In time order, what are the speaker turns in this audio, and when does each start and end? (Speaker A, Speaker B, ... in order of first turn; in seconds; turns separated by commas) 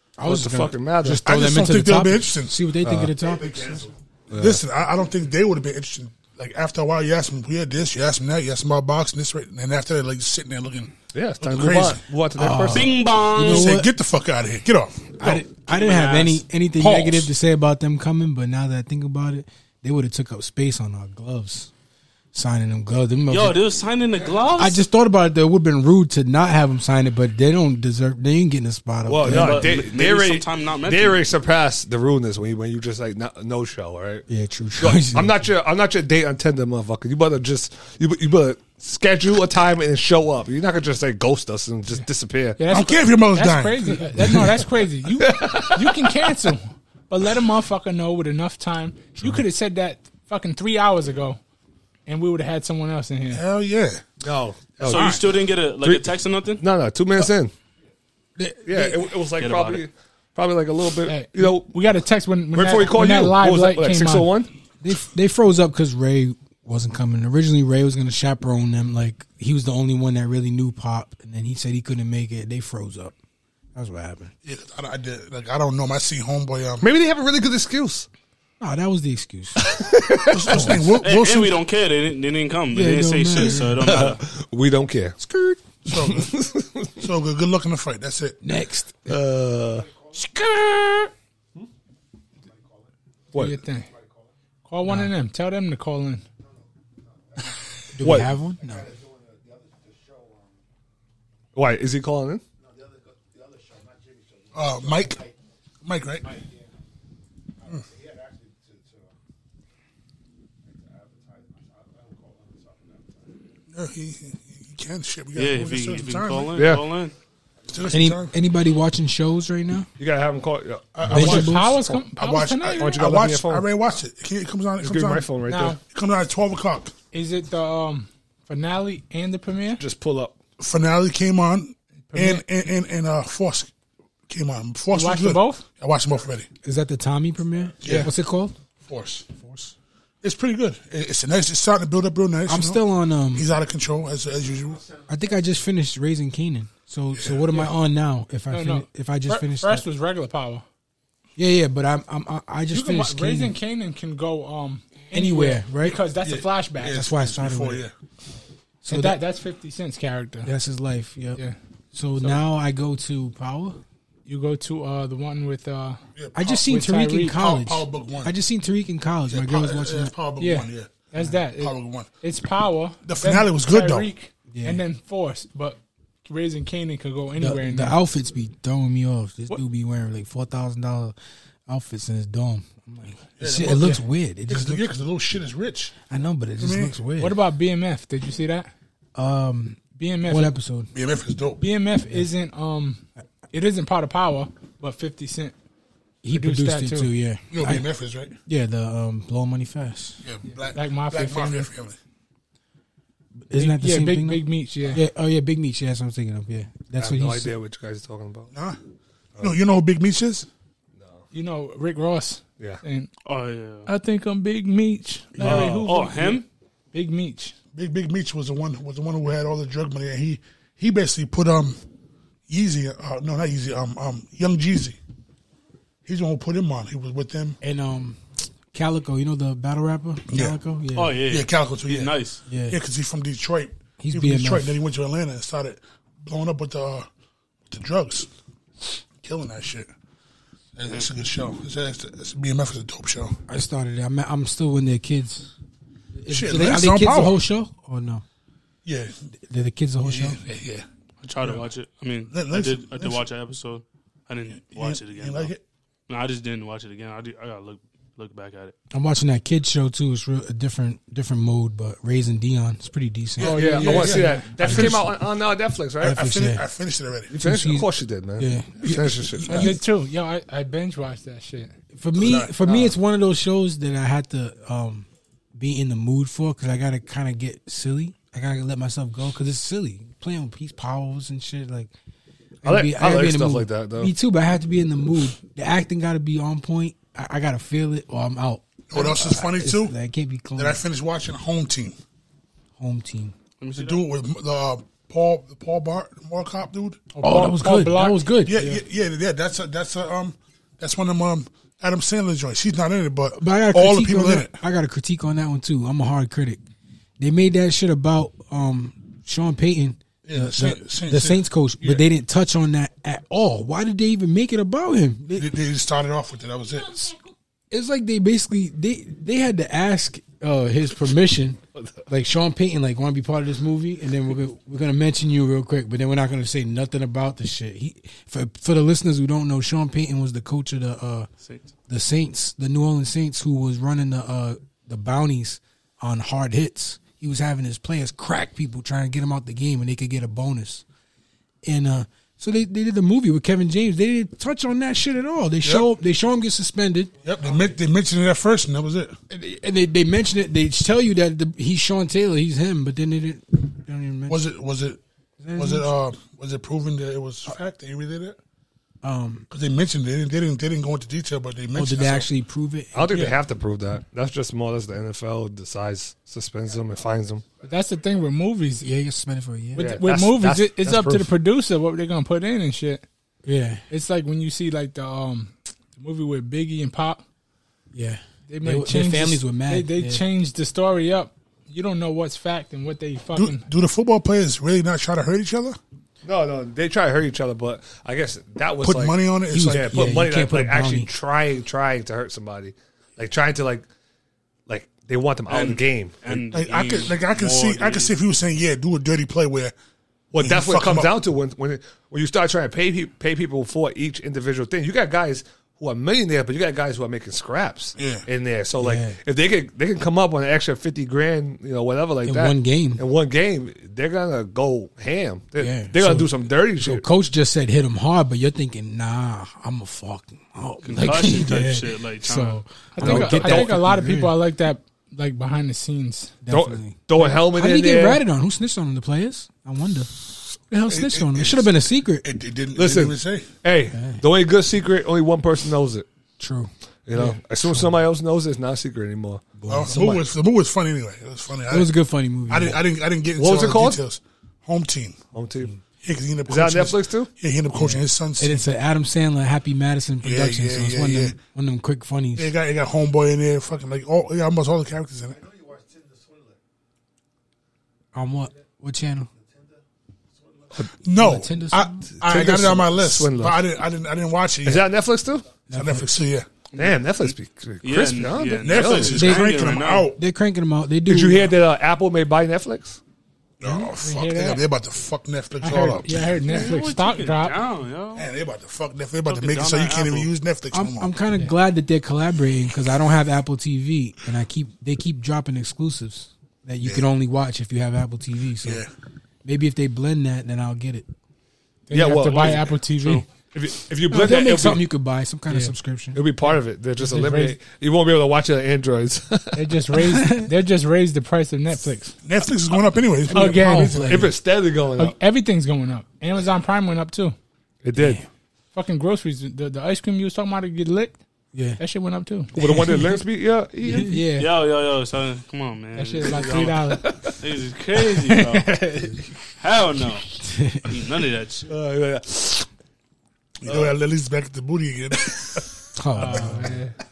Speaker A: 0.2-3.9, Speaker B: 0.2-1.2, Speaker C: 1.1-2.6, Speaker B: 2.8-3.1, Speaker C: 3.5-12.0, Speaker B: 4.3-4.6, Speaker B: 11.1-12.9, Speaker A: 12.4-13.9, Speaker D: 12.7-13.8, Speaker C: 13.4-15.4, Speaker A: 15.2-21.7, Speaker D: 15.7-16.4, Speaker C: 16.8-17.3, Speaker A: 22.3-23.6, Speaker D: 23.3-24.8, Speaker A: 24.6-29.8, Speaker B: 29.0-34.2, Speaker D: 29.2-31.2, Speaker A: 34.3-35.4, Speaker B: 34.8-42.6, Speaker E: 42.6-51.4, Speaker C: 42.7-44.2, Speaker B: 45.2-46.1, Speaker E: 52.0-53.4, Speaker C: 53.3-54.0, Speaker B: 54.2-55.2, Speaker C: 54.8-55.2, Speaker D: 54.8-56.6, Speaker B: 55.8-57.5, Speaker A: 58.4-59.1, Speaker B: 58.6-61.7, Speaker D: 59.4-59.8, Speaker E: 61.0-64.3, Speaker B: 62.5-64.5, Speaker A: 64.8-73.1, Speaker A: 73.7-74.3, Speaker C: 74.4-76.8, Speaker B: 76.8-78.1, Speaker A: 78.6-79.8, Speaker B: 79.6-80.9, Speaker C: 80.3-81.6, Speaker A: 80.5-80.9, Speaker D: 81.0-84.2, Speaker A: 82.7-84.1, Speaker B: 83.4-85.2, Speaker A: 85.2-85.6, Speaker C: 85.8-86.3, Speaker B: 85.9-87.0, Speaker C: 87.0-88.4, Speaker A: 88.4-89.2, Speaker B: 89.1-89.9, Speaker B: 93.3-93.6, Speaker E: 93.3-93.9, Speaker E: 94.6-96.2, Speaker A: 97.9-99.0, Speaker B: 98.0-98.3, Speaker B: 101.5-102.4, Speaker C: 104.5-105.3, Speaker C: 105.8-106.3, Speaker C: 113.7-116.6, Speaker D: 115.3-117.1, Speaker B: 116.5-116.8, Speaker C: 117.7-118.3, Speaker A: 117.9-119.9, Speaker B: 120.0-122.0, Speaker C: 120.9-121.5, Speaker A: 121.1-121.7, Speaker E: 121.1-123.0, Speaker C: 122.1-126.9, Speaker B: 122.8-123.7, Speaker B: 124.8-125.8, Speaker E: 125.5-125.8, Speaker E: 127.1-129.8, Speaker B: 129.8-130.4, Speaker C: 130.6-133.7, Speaker E: 132.1-132.4, Speaker C: 134.3-136.5, Speaker E: 134.9-135.6, Speaker A: 136.6-138.6, Speaker C: 137.8-138.1, Speaker C: 138.8-139.5, Speaker C: 140.2-142.8, Speaker A: 142.5-143.5, Speaker C: 143.3-144.9, Speaker A: 145.1-149.8, Speaker E: 148.5-150.6, Speaker A: 151.4-153.5, Speaker E: 152.7-157.1, Speaker A: 155.1-156.0, Speaker C: 156.2-157.9, Speaker A: 156.9-157.8, Speaker A: 158.8-159.2, Speaker E: 158.9-160.5, Speaker A: 160.4-161.4, Speaker A: 161.9-163.8, Speaker E: 164.2-166.0, Speaker C: 166.2-166.7, Speaker A: 166.3-170.1, Speaker E: 166.6-167.4, Speaker C: 167.3-168.3, Speaker C: 169.3-172.1, Speaker E: 170.4-178.0, Speaker C: 173.0-174.1, Speaker A: 174.5-174.8, Speaker A: 177.4-181.2, Speaker A: 181.7-184.9, Speaker C: 183.4-185.9, Speaker A: 186.1-187.4, Speaker C: 186.6-186.9, Speaker E: 187.2-188.7, Speaker A: 189.1-190.9, Speaker E: 190.0-190.5, Speaker C: 190.9-191.6, Speaker E: 191.6-195.5, Speaker A: 196.2-197.9, Speaker E: 196.3-197.1, Speaker C: 197.5-198.3, Speaker A: 198.5-200.2, Speaker C: 200.2-202.0, Speaker E: 200.7-201.7, Speaker A: 203.5-207.5, Speaker E: 203.6-205.0, Speaker B: 207.0-208.5, Speaker C: 208.5-208.8, Speaker C: 209.4-210.5, Speaker B: 211.0-211.2, Speaker E: 211.3-213.1, Speaker D: 213.2-213.9, Speaker E: 213.8-217.5, Speaker B: 215.4-215.9, Speaker D: 215.4-216.4, Speaker C: 217.7-221.8, Speaker C: 222.5-225.0, Speaker C: 226.0-227.6, Speaker A: 227.6-231.2, Speaker C: 230.3-230.6, Speaker D: 230.9-232.4, Speaker C: 231.2-232.1, Speaker A: 232.5-232.8, Speaker C: 232.7-237.1, Speaker A: 234.0-234.8, Speaker C: 237.7-238.3, Speaker C: 238.8-239.9, Speaker C: 240.8-243.3, Speaker A: 243.5-245.5, Speaker A: 246.2-248.2, Speaker C: 246.3-247.4, Speaker C: 248.8-249.1, Speaker A: 249.5-250.4, Speaker C: 250.0-250.8, Speaker D: 251.2-255.5, Speaker C: 252.3-253.2, Speaker C: 254.7-255.6, Speaker D: 256.1-258.7, Speaker A: 258.9-265.1, Speaker C: 263.4-265.0, Speaker E: 263.4-264.9, Speaker B: 263.4-266.3, Speaker A: 266.0-266.6, Speaker C: 266.0-267.3, Speaker B: 267.3-269.7, Speaker A: 267.4-269.8, Speaker E: 269.4-271.7, Speaker A: 271.9-281.9, Speaker C: 272.2-272.5, Speaker B: 272.6-272.9, Speaker A: 282.6-290.8, Speaker B: 282.6-284.1, Speaker C: 288.9-289.9, Speaker C: 290.6-291.9, Speaker A: 292.8-293.3, Speaker D: 293.6-294.0, Speaker C: 293.7-297.1, Speaker E: 297.1-298.4, Speaker A: 297.2-298.8, Speaker C: 298.4-304.6, Speaker A: 303.4-306.6, Speaker A: 307.2-315.5, Speaker C: 310.2-312.0, Speaker C: 315.4-317.1, Speaker A: 317.7-331.3, Speaker A: 331.9-340.8, Speaker A: 341.6-347.1, Speaker C: 345.6-345.9, Speaker C: 347.2-349.1, Speaker A: 349.3-354.4, Speaker C: 354.3-355.0, Speaker A: 355.4-355.9, Speaker C: 355.6-358.4, Speaker A: 359.0-359.5, Speaker C: 359.5-362.3, Speaker A: 361.7-363.3, Speaker B: 362.9-367.4, Speaker E: 367.6-368.9, Speaker A: 368.8-369.9, Speaker E: 369.7-373.1, Speaker B: 369.8-371.3, Speaker A: 373.4-373.8, Speaker E: 373.9-377.2, Speaker A: 377.9-380.2, Speaker E: 378.5-383.6, Speaker C: 383.3-385.8, Speaker B: 386.2-393.9, Speaker C: 388.8-390.0, Speaker A: 389.5-391.1, Speaker B: 394.7-396.3, Speaker D: 395.5-398.1, Speaker C: 396.5-399.7, Speaker B: 400.3-417.0, Speaker C: 400.4-401.2, Speaker C: 408.0-408.2, Speaker A: 408.8-409.2, Speaker A: 412.2-413.0, Speaker A: 415.6-424.4, Speaker D: 420.8-422.6, Speaker E: 422.9-426.3, Speaker B: 423.0-423.8, Speaker A: 426.4-432.3, Speaker B: 426.5-428.2, Speaker C: 430.9-433.6, Speaker B: 432.8-436.1, Speaker A: 433.9-434.2, Speaker A: 436.4-437.9, Speaker B: 437.1-440.2, Speaker A: 439.6-440.1, Speaker C: 439.7-441.9, Speaker A: 441.7-442.8, Speaker C: 442.5-445.2, Speaker B: 443.4-444.0, Speaker B: 445.3-445.7, Speaker C: 446.0-448.6, Speaker B: 446.4-447.3, Speaker A: 447.7-452.5, Speaker C: 450.2-451.4, Speaker C: 452.4-455.5, Speaker A: 458.1-459.3, Speaker C: 461.0-464.9, Speaker A: 461.1-462.7, Speaker B: 462.2-463.6, Speaker B: 464.6-465.6, Speaker C: 465.7-466.5, Speaker A: 465.7-466.1, Speaker B: 466.7-469.2, Speaker D: 467.8-470.1, Speaker C: 468.6-470.2, Speaker A: 469.1-471.6, Speaker B: 471.1-473.0, Speaker C: 473.6-476.4, Speaker A: 473.6-473.9, Speaker E: 474.0-474.6, Speaker E: 475.6-477.6, Speaker D: 476.4-478.3, Speaker C: 478.1-481.1, Speaker D: 479.2-480.3, Speaker A: 480.7-488.8, Speaker C: 488.6-488.9, Speaker A: 489.4-491.1, Speaker E: 491.9-493.2, Speaker B: 491.9-494.8, Speaker A: 494.1-496.2, Speaker B: 496.1-499.6, Speaker E: 497.0-497.6, Speaker E: 499.5-502.2, Speaker A: 499.9-500.5, Speaker C: 502.2-504.3, Speaker A: 503.2-504.3, Speaker E: 503.3-504.1, Speaker B: 504.1-505.1, Speaker E: 504.9-507.4, Speaker B: 507.8-508.2, Speaker A: 507.9-508.2, Speaker E: 508.7-511.2, Speaker A: 511.5-511.8, Speaker E: 511.8-512.5, Speaker B: 512.5-514.2, Speaker A: 513.9-514.2, Speaker E: 514.1-514.5, Speaker D: 514.4-518.8, Speaker E: 515.9-517.0, Speaker B: 517.0-517.3, Speaker E: 517.9-519.2, Speaker D: 519.6-520.3, Speaker A: 520.4-521.0, Speaker D: 520.8-521.7, Speaker B: 521.7-522.7, Speaker C: 523.6-525.6, Speaker B: 523.6-523.9, Speaker B: 525.2-525.6, Speaker A: 526.0-526.8, Speaker E: 526.1-526.9